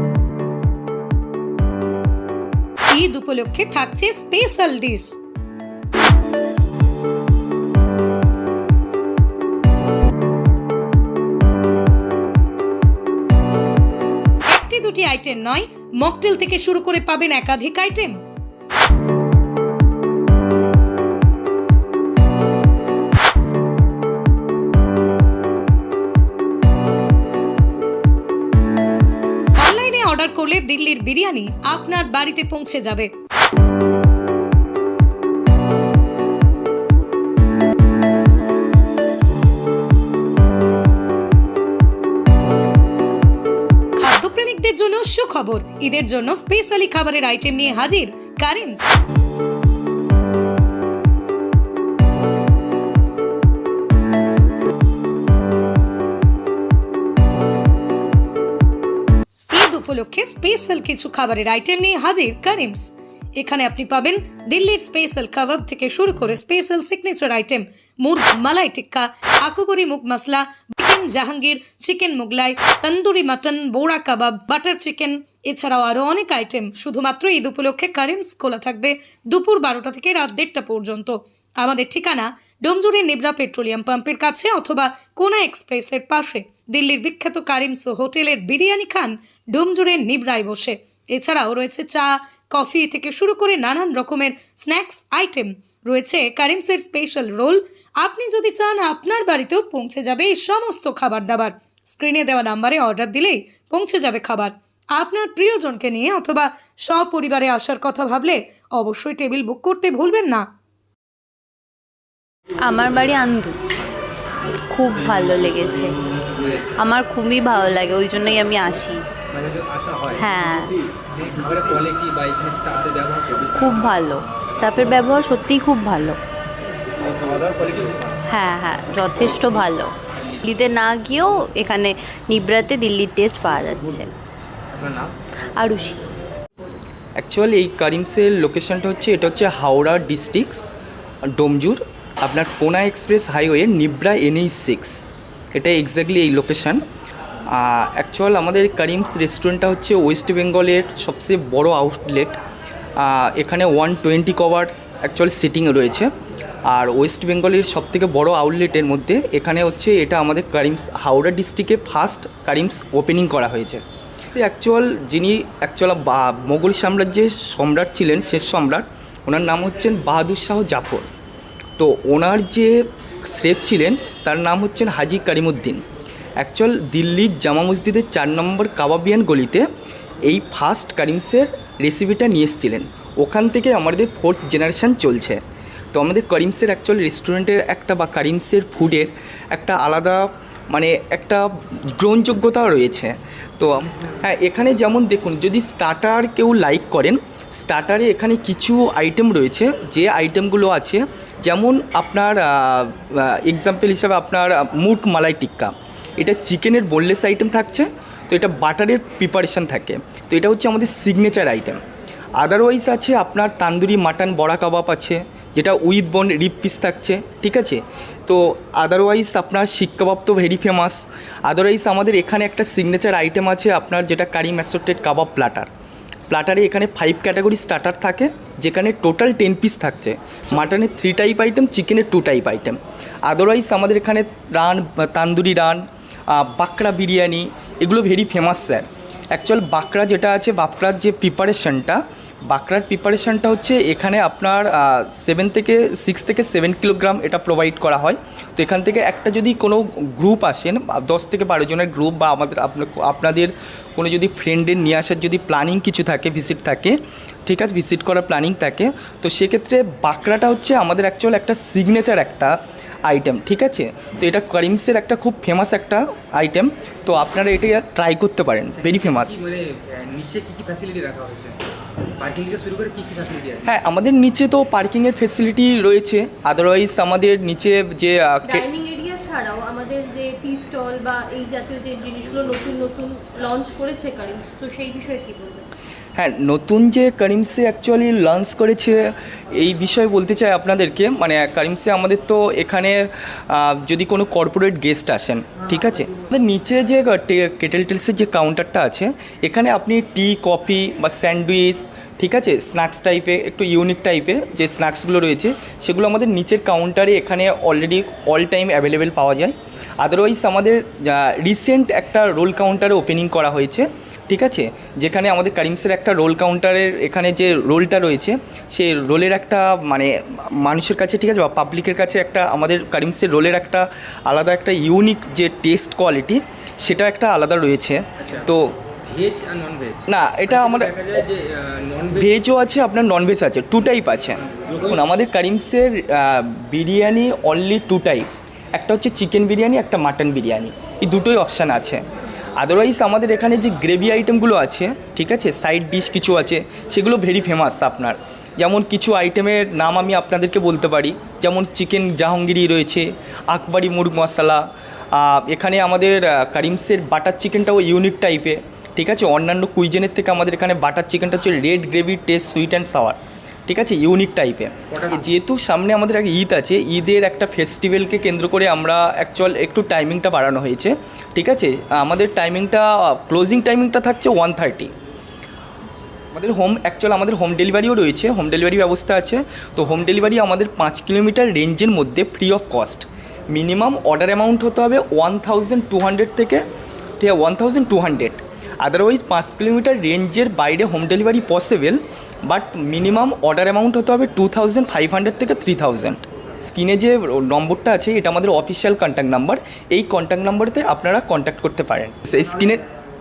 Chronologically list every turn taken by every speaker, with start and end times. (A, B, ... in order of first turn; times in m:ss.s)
0:02.9-0:05.2 A
0:14.5-0:18.2 A
0:29.6-0:33.1 A
0:44.0-0:48.9 A
0:59.5-1:50.5 A
1:52.6-1:53.6 B
1:54.7-1:55.9 B
1:56.4-1:56.7 C
1:56.8-1:59.0 B
1:59.3-2:00.4 C
2:00.1-2:00.7 B
2:01.1-2:03.8 C
2:03.6-2:06.2 B
2:07.0-2:08.2 C
2:08.3-2:14.1 B
2:10.2-2:10.4 C
2:14.6-2:15.1 C
2:15.6-2:16.0 B
2:17.2-2:20.6 D
2:21.3-2:25.0 D
2:25.5-2:26.8 D
2:27.5-2:32.4 D
2:33.0-2:36.1 D
2:36.7-2:51.1 D
2:51.8-2:55.8 D
2:56.4-2:59.7 D
3:00.2-3:05.4 D
3:05.9-3:31.8 D
3:32.4-3:45.7 D
3:46.3-4:29.4 D
4:28.8-4:31.6 C
4:32.2-4:33.8 C
4:33.6-4:38.7 D
4:38.5-4:45.7 E
4:46.2-5:28.7 D
5:28.2-5:28.5 C
5:29.0-5:32.3 C
5:30.1-5:31.1 D
5:32.2-5:42.0 D
5:34.5-5:35.0 C
5:42.6-6:14.9 D
6:04.9-6:05.3 C
6:16.3-6:26.6 D
6:27.2-6:42.8 D